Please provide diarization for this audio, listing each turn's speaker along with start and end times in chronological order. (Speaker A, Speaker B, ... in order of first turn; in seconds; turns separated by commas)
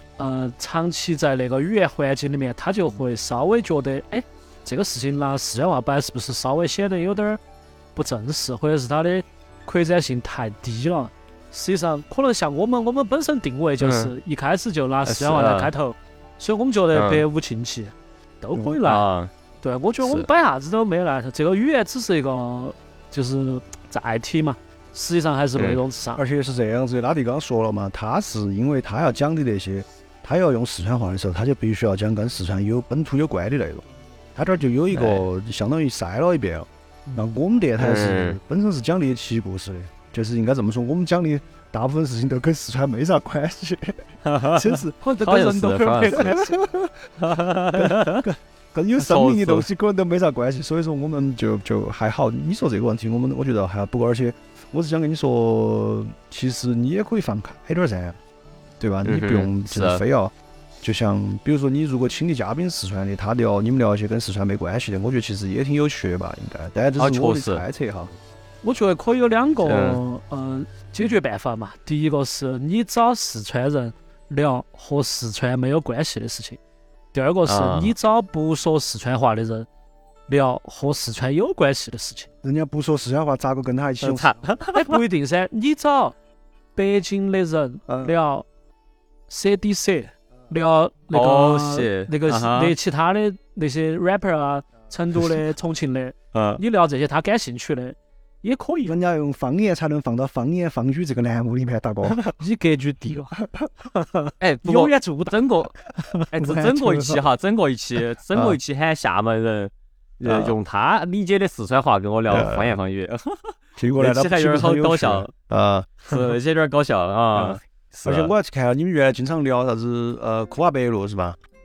Speaker A: 0.2-7.4, Speaker A: 8.0-19.0, Speaker B: 13.8-14.1, Speaker B: 15.1-15.7, Speaker B: 16.9-17.2, Speaker B: 18.8-19.3, Speaker A: 19.6-26.2, Speaker B: 20.0-20.3, Speaker C: 26.1-44.0, Speaker B: 34.9-35.2, Speaker B: 37.8-38.4, Speaker B: 44.2-46.4, Speaker C: 44.5-45.1, Speaker A: 45.0-46.5, Speaker C: 46.1-58.2, Speaker B: 47.2-48.2, Speaker B: 49.0-49.7, Speaker C: 58.8-68.1, Speaker B: 59.0-60.0, Speaker B: 67.0-67.6, Speaker A: 68.6-76.6, Speaker B: 69.6-70.0, Speaker A: 77.1-79.7, Speaker B: 77.5-77.9, Speaker A: 80.3-82.3, Speaker C: 82.4-84.3, Speaker B: 84.0-85.0, Speaker A: 84.7-86.1, Speaker A: 86.8-88.5, Speaker C: 87.9-88.1, Speaker A: 89.3-98.9, Speaker B: 91.1-92.7, Speaker B: 96.3-96.6, Speaker C: 98.9-102.2, Speaker A: 102.2-103.4, Speaker A: 103.9-106.2, Speaker B: 104.4-105.7, Speaker B: 106.3-115.3, Speaker C: 106.4-107.2, Speaker C: 108.3-108.6, Speaker C: 110.2-110.5, Speaker C: 112.3-112.8, Speaker C: 113.8-116.2, Speaker B: 116.1-118.3, Speaker C: 117.3-121.4